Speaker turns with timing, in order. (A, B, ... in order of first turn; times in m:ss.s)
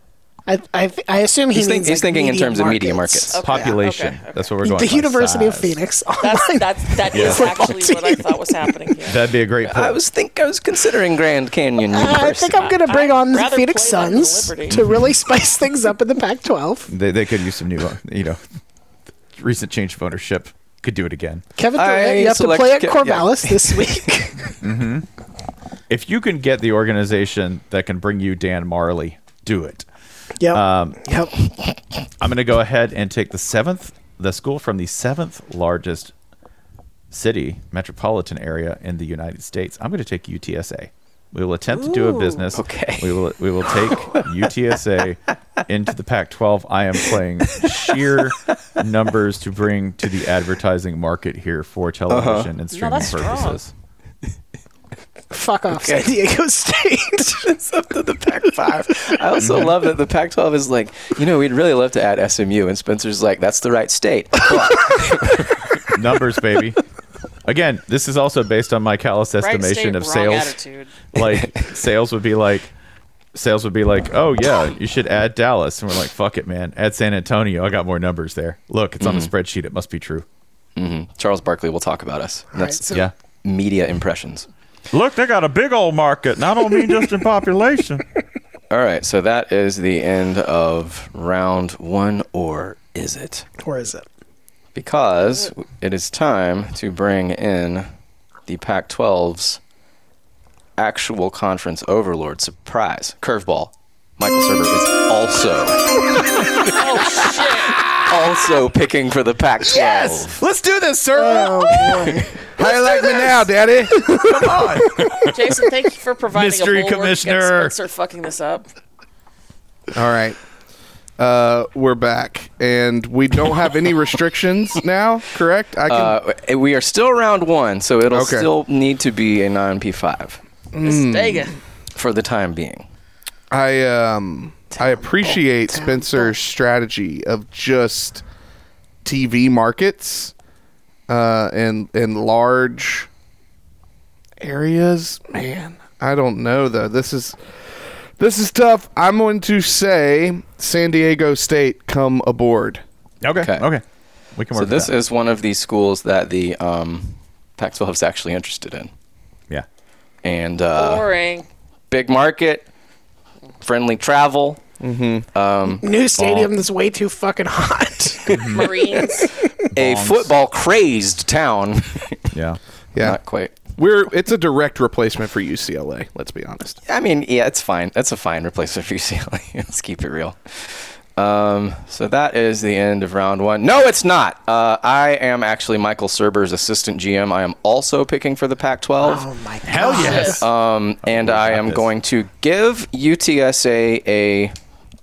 0:00.5-0:03.8 A
0:01.5-0:03.4 B
0:03.3-0:04.5 C
0:03.4-0:05.8 D
0:04.6-0:08.7 A
0:06.2-0:09.2 C
0:07.1-0:07.6 D
0:09.0-0:10.0 D
0:09.6-0:12.7 B
0:11.9-0:16.9 A
0:12.6-0:14.8 C
0:16.9-0:18.4 D
0:19.4-0:21.4 D
0:21.6-0:24.6 A
0:21.7-0:24.1 B
0:24.6-0:25.1 D
0:25.9-0:29.9 D
0:30.4-0:31.3 A
0:30.5-0:31.0 D
0:32.2-0:36.1 D
0:37.1-0:53.7 D
0:42.5-0:44.2 B
0:52.1-0:52.5 B
0:52.7-0:53.6 C
0:55.3-0:57.5 A
0:55.7-0:56.1 B
0:57.4-1:05.9 B
0:59.4-0:59.7 D
1:05.9-1:06.8 D
1:07.4-1:10.6 D
1:09.4-1:10.9 C
1:11.1-1:12.7 D
1:11.2-1:11.6 B
1:13.3-1:20.2 D
1:19.0-1:19.3 B
1:20.8-1:24.5 B
1:22.5-1:23.1 A
1:24.9-1:28.0 D
1:28.7-1:33.4 B
1:33.6-1:34.0 A
1:34.7-1:37.9 B
1:38.5-1:39.6 B
1:40.8-1:46.0 B
1:46.7-1:47.8 C
1:48.0-1:50.4 B
1:49.7-1:52.2 D
1:51.1-1:52.4 A
1:52.5-1:54.6 E
1:54.1-1:55.4 D
1:55.2-1:58.7 C
1:56.3-1:57.7 D
1:59.9-2:00.4 E
2:01.2-2:06.2 E
2:05.9-2:10.4 B
2:08.1-2:08.5 E
2:10.7-2:11.5 E
2:10.8-2:11.6 C
2:11.9-2:12.9 B
2:13.5-2:18.2 E
2:14.7-2:16.3 A
2:19.0-2:20.3 E
2:21.1-2:23.1 E
2:24.4-2:32.8 E
2:33.2-2:33.8 D
2:33.4-2:33.7 B
2:34.4-2:34.9 D
2:34.5-2:38.9 B
2:40.2-2:41.0 B
2:40.7-2:41.5 C
2:41.9-2:42.7 B
2:43.6-2:44.6 B
2:44.8-2:45.3 E
2:45.3-2:45.8 B
2:45.7-2:49.3 A
2:46.2-2:46.5 D
2:48.3-2:48.7 D
2:48.5-2:49.3 C
2:49.7-2:50.3 D
2:49.7-2:52.3 B
2:52.3-2:52.6 D
2:52.9-2:53.2 E
2:53.0-2:53.7 B
2:53.7-2:56.8 E
2:56.8-3:09.3 B
3:09.0-3:10.4 A
3:09.6-3:10.5 D
3:09.8-3:14.5 B
3:09.9-3:10.3 C
3:11.0-3:11.9 D